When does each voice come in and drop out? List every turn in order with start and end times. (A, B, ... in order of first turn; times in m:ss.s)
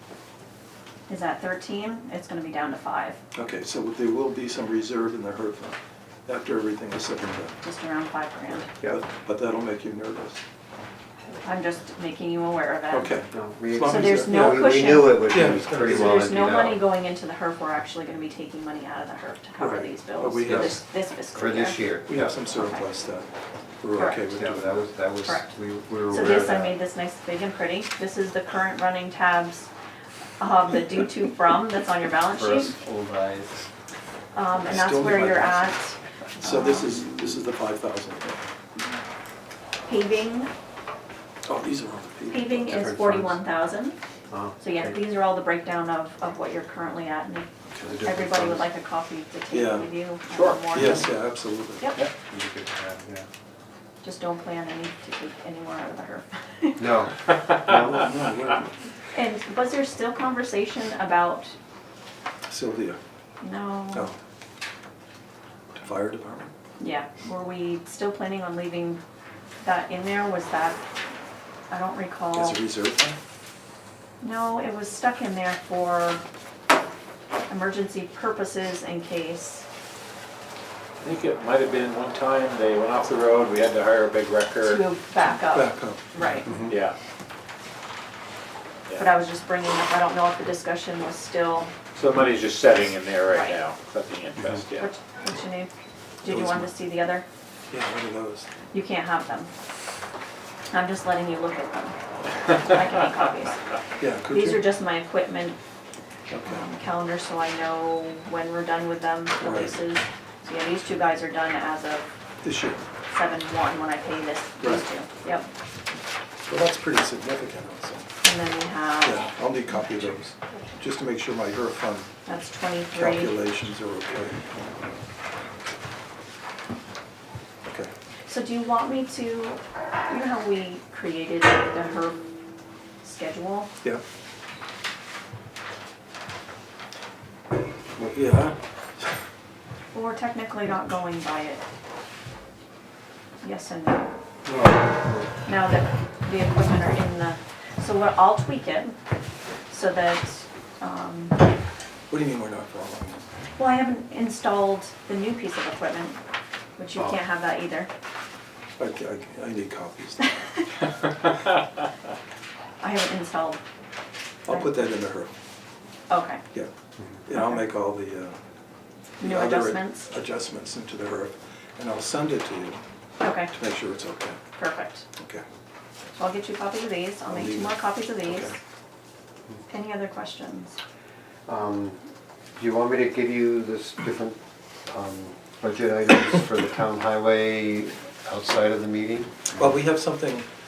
0:01.1-0:03.2 A
0:03.3-0:07.6 B
0:07.6-0:08.7 A
0:08.8-0:10.4 B
0:11.4-0:13.1 A
0:12.9-0:16.3 B
0:13.3-0:16.8 C
0:13.8-0:15.2 A
0:15.8-0:21.9 A
0:19.6-0:20.8 B
0:20.4-0:20.7 C
0:21.3-0:22.4 C
0:22.1-0:23.3 B
0:22.5-0:22.8 A
0:23.8-0:24.8 B
0:23.9-0:24.2 A
0:24.3-0:26.8 C
0:26.1-0:29.7 A
0:30.4-0:32.8 A
0:32.3-0:33.6 C
0:34.3-0:37.0 A
0:34.6-0:35.8 B
0:36.4-0:38.4 B
0:39.9-0:40.5 A
0:41.4-0:42.9 B
0:42.3-0:44.0 A
0:42.6-0:43.4 C
0:44.3-0:45.0 C
0:44.6-0:51.1 A
0:47.7-0:48.7 C
0:49.5-0:49.9 B
0:50.3-0:50.7 D
0:50.7-0:51.9 B
0:51.8-0:52.0 A
0:52.3-0:53.3 C
0:54.0-0:56.9 A
0:56.8-0:58.6 C
0:58.0-0:58.6 B
0:59.1-1:01.6 A
1:02.5-1:03.0 B
1:03.4-1:04.1 A
1:05.7-1:06.5 B
1:06.8-1:09.0 A
1:09.6-1:10.8 A
1:11.7-1:12.6 A
1:12.3-1:13.2 B
1:14.2-1:16.2 A
1:17.5-1:19.6 A
1:21.0-1:24.8 D
1:24.6-1:26.5 A
1:25.3-1:26.0 B
1:26.2-1:27.0 D
1:26.4-1:26.8 C
1:29.0-1:31.7 A
1:31.9-1:34.9 D
1:33.3-1:33.6 A
1:34.4-1:34.6 C
1:34.8-1:35.7 A
1:36.2-1:37.2 A
1:36.3-1:36.7 B
1:37.7-1:38.5 B
1:38.7-1:39.5 A
1:40.7-1:42.0 A
1:42.5-1:43.6 A
1:44.0-1:44.7 B
1:44.3-1:45.6 A
1:46.3-1:46.6 B
1:46.4-1:52.1 A
1:49.4-1:49.7 B
1:52.4-1:52.8 B
1:53.1-1:55.5 A
1:56.5-1:58.1 B
1:58.2-1:59.3 A
1:59.0-2:02.1 B
2:02.2-2:03.3 A
2:02.9-2:04.7 B
2:07.7-2:07.9 B
2:08.2-2:12.2 A
2:13.0-2:13.7 A
2:18.1-2:19.1 B
2:19.9-2:21.6 A
2:23.4-2:24.1 A
2:24.4-2:25.3 C
2:25.4-2:29.0 A
2:29.7-2:31.3 A
2:32.1-2:33.3 B
2:33.6-2:36.2 A
2:36.8-2:37.9 A
2:38.8-2:40.3 B
2:42.8-2:43.6 A
2:44.4-2:45.3 B
2:46.1-2:46.4 A
2:47.3-2:48.4 B
2:49.2-2:52.8 B
2:49.2-2:50.1 A
2:53.2-2:53.5 A
2:53.5-2:54.4 B
2:54.6-2:55.0 A
2:55.2-2:55.4 B
2:56.2-2:58.5 A
2:57.3-2:58.5 B
2:59.7-3:00.8 A
3:01.4-3:02.0 C
3:02.6-3:09.8 C
3:09.6-3:10.5 B